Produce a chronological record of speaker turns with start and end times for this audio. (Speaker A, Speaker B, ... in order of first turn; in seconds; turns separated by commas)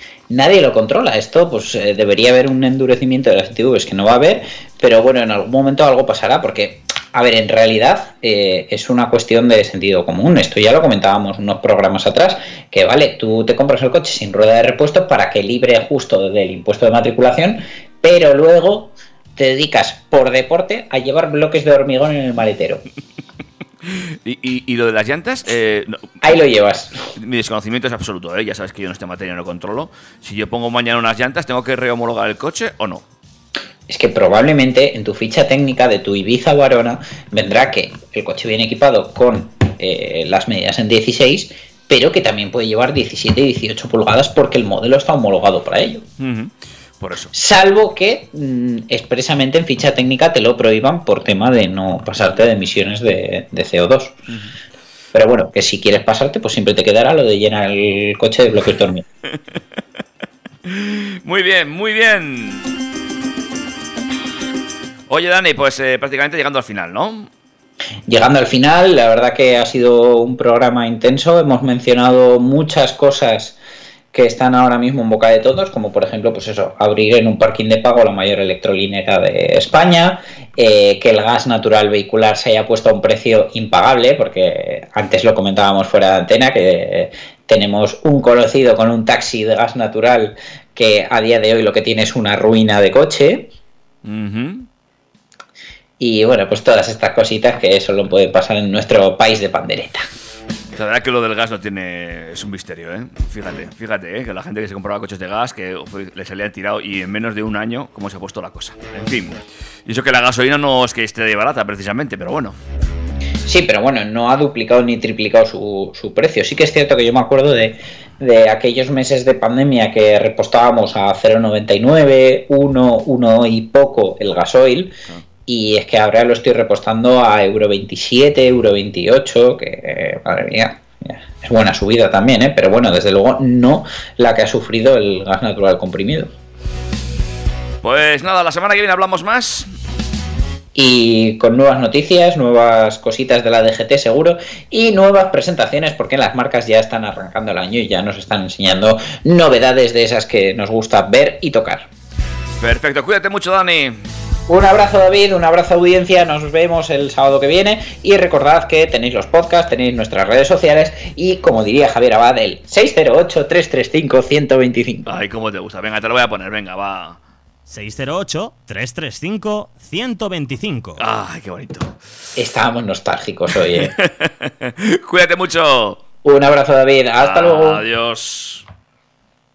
Speaker A: 0.3-22.8, Speaker B: 23.9-26.2, Speaker A: 26.2-26.9, Speaker B: 27.1-33.0, Speaker A: 33.9-46.0, Speaker B: 46.2-47.3, Speaker A: 47.3-54.1, Speaker A: 55.1-59.0, Speaker B: 60.6-62.7, Speaker B: 65.1-67.3, Speaker A: 68.1-73.6, Speaker A: 74.1-93.5, Speaker B: 94.0-94.7, Speaker A: 96.0-100.0, Speaker B: 100.7-112.5, Speaker A: 113.5-124.9, Speaker A: 125.5-136.3, Speaker B: 137.8-139.7, Speaker A: 140.7-151.9, Speaker B: 152.6-154.0, Speaker A: 154.5-165.1, Speaker B: 165.1-167.2, Speaker C: 167.7-171.0, Speaker B: 171.0-171.9, Speaker A: 172.3-173.9, Speaker B: 173.8-176.0, Speaker A: 176.2-177.8, Speaker B: 177.2-178.6